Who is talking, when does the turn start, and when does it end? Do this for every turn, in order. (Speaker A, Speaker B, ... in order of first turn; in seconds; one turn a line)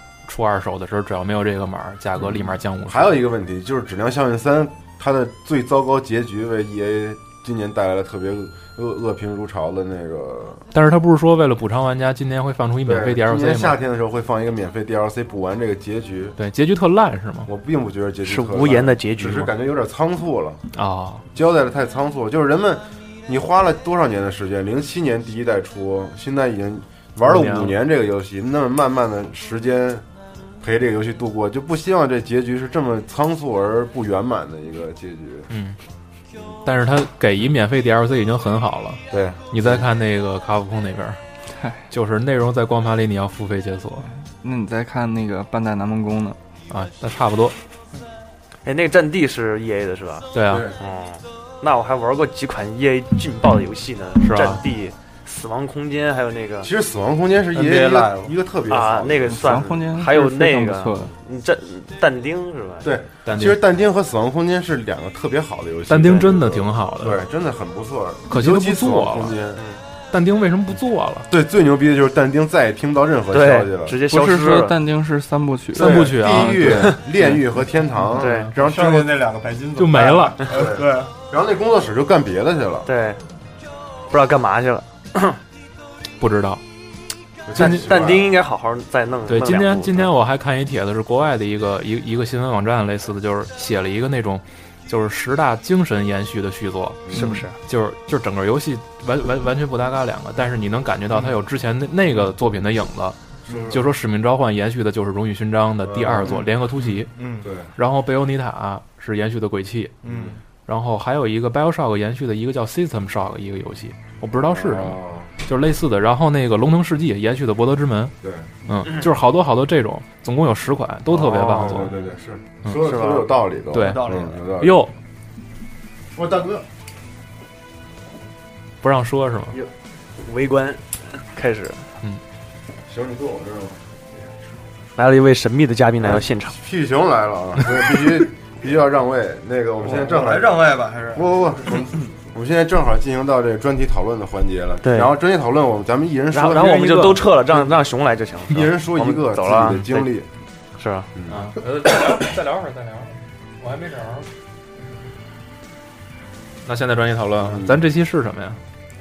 Speaker A: 0.2-3.1
Speaker B: 2.2-10.7
Speaker A: 10.7-13.8
Speaker B: 12.8-16.4
Speaker A: 16.4-17.5
Speaker B: 17.5-20.6
Speaker C: 18.2-19.5
Speaker A: 20.7-21.2
Speaker B: 21.3-30.0
Speaker A: 27.2-27.7
Speaker B: 30.6-35.5
Speaker A: 35.5-35.8
Speaker A: 36.6-41.2
Speaker B: 39.1-39.9
Speaker A: 41.9-44.1
Speaker D: 44.4-46.4
Speaker A: 46.7-47.5
Speaker C: 48.6-56.7
Speaker A: 50.3-50.7
Speaker B: 50.5-50.8
Speaker A: 54.2-54.6
Speaker B: 56.6-59.8
Speaker E: 57.5-58.3
Speaker C: 58.7-62.9
Speaker D: 59.3-61.1
Speaker B: 62.8-69.6
Speaker A: 63.2-63.6
Speaker A: 65.9-67.2
Speaker A: 68.3-69.3
Speaker A: 70.1-71.3
Speaker B: 71.3-74.0
Speaker C: 73.3-74.8
Speaker D: 74.1-76.9
Speaker B: 75.7-79.2
Speaker A: 75.7-76.9
Speaker C: 78.1-78.5
Speaker A: 78.2-78.5
Speaker E: 78.5-81.1
Speaker A: 79.8-80.4
Speaker B: 80.5-82.9
Speaker C: 82.8-83.2
Speaker C: 84.1-85.4
Speaker A: 86.2-86.6
Speaker B: 87.5-88.3
Speaker A: 87.5-87.9
Speaker C: 87.5-90.1
Speaker A: 89.3-107.1
Speaker B: 97.0-97.4
Speaker C: 97.1-97.5
Speaker B: 103.5-103.8
Speaker B: 105.8-106.4
Speaker E: 107.1-107.5
Speaker B: 107.4-107.7
Speaker A: 107.8-110.0
Speaker E: 110.0-110.4
Speaker B: 110.0-110.4
Speaker A: 110.7-118.1
Speaker B: 114.5-115.3
Speaker B: 118.2-118.5
Speaker A: 118.7-121.9
Speaker B: 121.1-124.8
Speaker C: 121.2-121.9
Speaker C: 122.8-123.3
Speaker A: 123.7-124.0
Speaker E: 123.8-124.4
Speaker A: 124.6-124.9
Speaker B: 126.1-126.7
Speaker A: 128.8-129.6
Speaker C: 130.2-131.8
Speaker B: 132.9-133.8
Speaker C: 134.9-136.6
Speaker B: 136.0-147.8
Speaker E: 139.8-142.0
Speaker C: 144.8-145.1
Speaker C: 146.3-150.1
Speaker A: 146.6-147.2
Speaker B: 148.5-150.3
Speaker C: 150.8-151.1
Speaker B: 151.1-151.4
Speaker A: 151.3-154.3
Speaker A: 156.7-158.6
Speaker B: 157.4-157.8